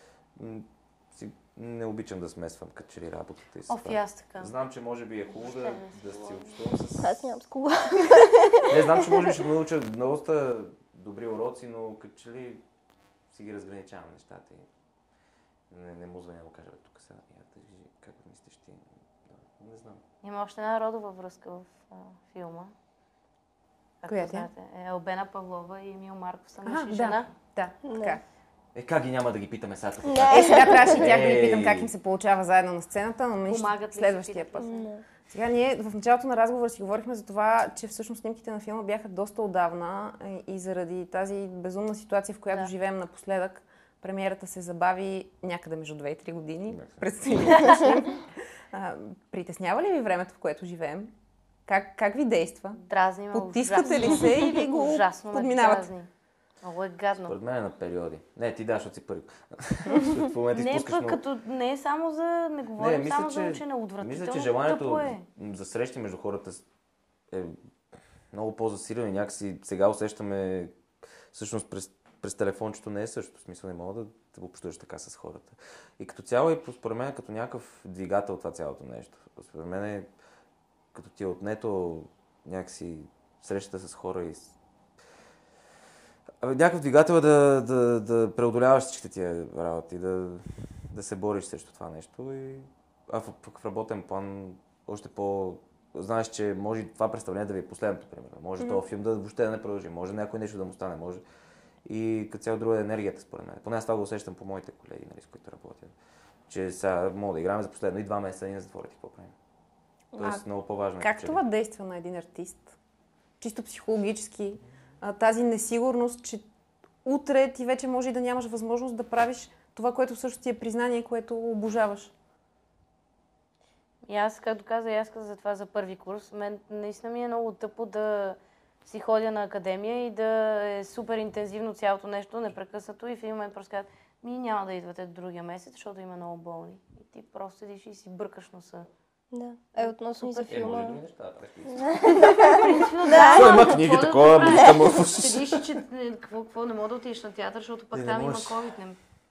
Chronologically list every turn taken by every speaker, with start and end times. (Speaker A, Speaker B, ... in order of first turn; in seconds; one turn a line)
Speaker A: 0.3-7.3
Speaker B: 3.7-4.5
Speaker B: 5.3-6.6
Speaker C: 7.0-8.8
Speaker A: 8.7-12.6
Speaker A: 13.3-14.7
Speaker A: 15.7-20.0
Speaker B: 20.2-22.7
Speaker B: 24.0-27.3
Speaker D: 24.1-24.5
Speaker D: 26.6-28.2
Speaker C: 27.8-28.2
Speaker A: 28.7-31.9
Speaker C: 30.0-31.0
Speaker D: 30.3-34.7
Speaker B: 33.4-34.9
Speaker C: 34.6-35.0
Speaker D: 35.3-51.1
Speaker A: 46.7-47.0
Speaker B: 47.5-47.8
Speaker D: 51.6-55.9
Speaker B: 52.8-56.1
Speaker B: 56.6-57.4
Speaker A: 57.2-61.2
Speaker B: 60.5-65.2
Speaker A: 62.8-66.6
Speaker A: 68.3-70.8
Speaker A: 71.3-80.1
Speaker A: 80.9-84.5
Speaker A: 86.4-101.2
Speaker A: 101.8-105.9
Speaker A: 106.5-109.3
Speaker A: 110.2-111.4
Speaker D: 111.0-112.8
Speaker D: 113.4-116.4
Speaker D: 117.0-122.1
Speaker B: 124.0-138.9
Speaker C: 139.3-141.0
Speaker B: 139.8-140.7
Speaker A: 140.4-142.2
Speaker C: 142.0-142.4
Speaker B: 142.1-149.0
Speaker C: 143.0-143.7
Speaker A: 143.3-145.7
Speaker A: 147.9-148.6